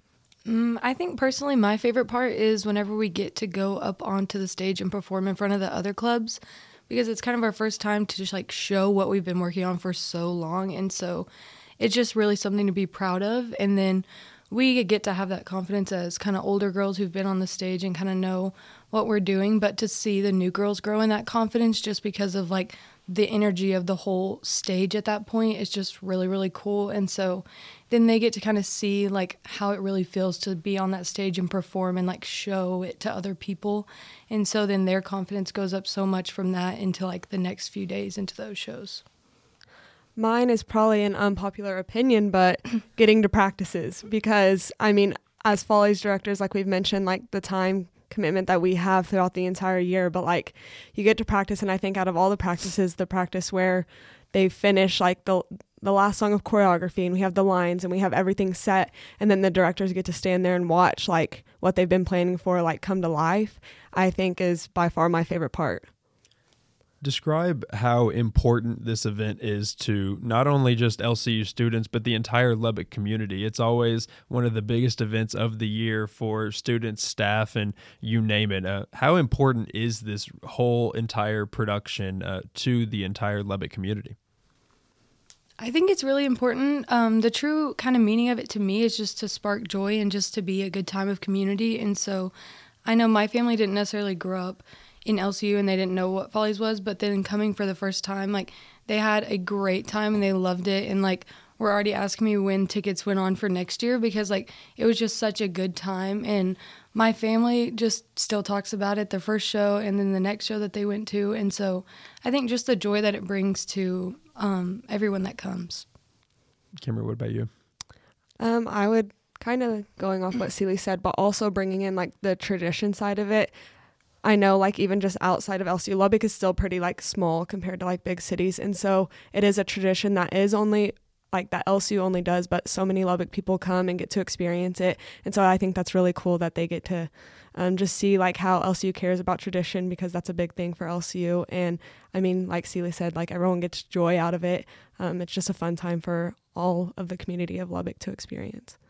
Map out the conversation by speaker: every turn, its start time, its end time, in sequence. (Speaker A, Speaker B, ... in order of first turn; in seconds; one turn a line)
Speaker A: 0.5-11.3
Speaker A: 11.8-39.0
Speaker B: 40.2-65.9
Speaker C: 67.0-84.2
Speaker A: 85.6-92.3
Speaker A: 92.8-115.8
Speaker C: 116.8-117.5
Speaker B: 118.4-123.5
Speaker B: 124.2-148.8